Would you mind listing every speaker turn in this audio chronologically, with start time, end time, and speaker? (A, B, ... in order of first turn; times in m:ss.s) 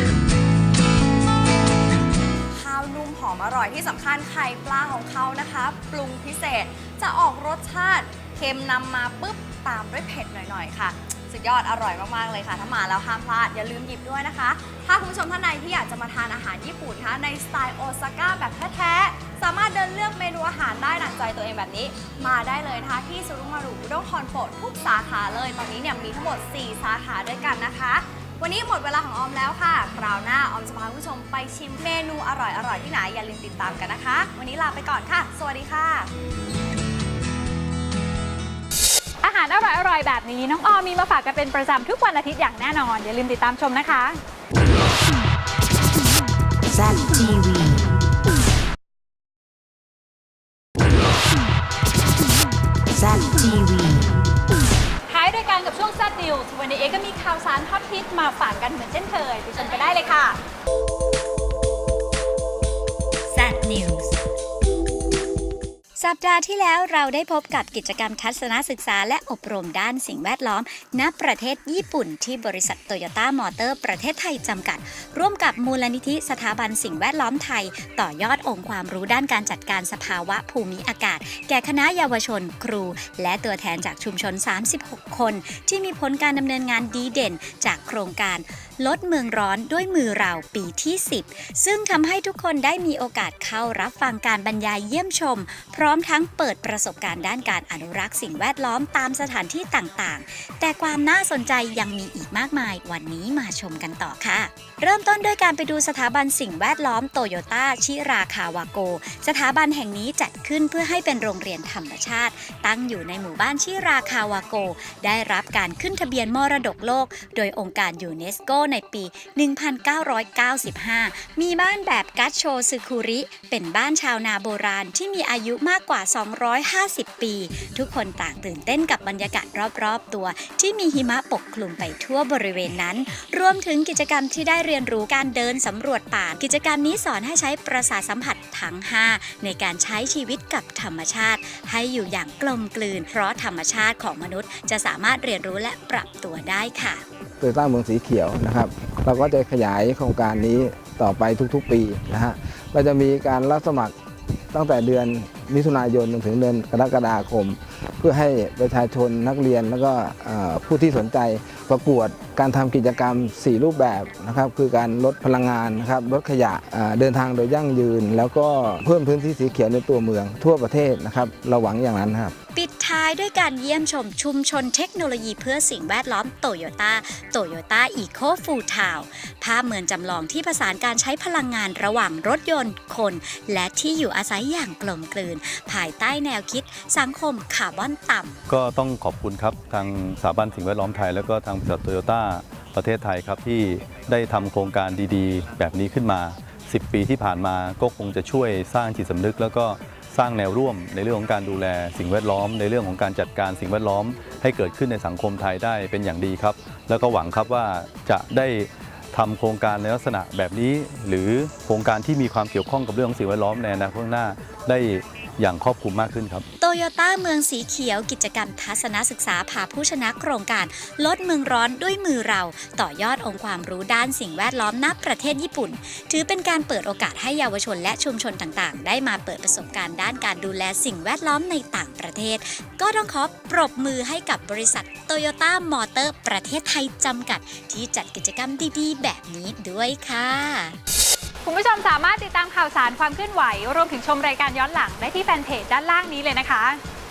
0:02.5-0:36.1 A
0:39.2-0:44.2 B
0:46.7-0:47.8 C
0:52.9-0:54.1 C
0:55.1-1:00.4 B
1:03.4-1:03.8 D
1:03.5-1:04.1 C
1:06.0-2:27.0 D
2:27.4-2:33.9 E
2:34.5-2:52.3 E
2:52.5-3:08.4 D
3:08.5-3:36.4 F
3:36.6-4:00.8 D
4:01.4-4:06.8 B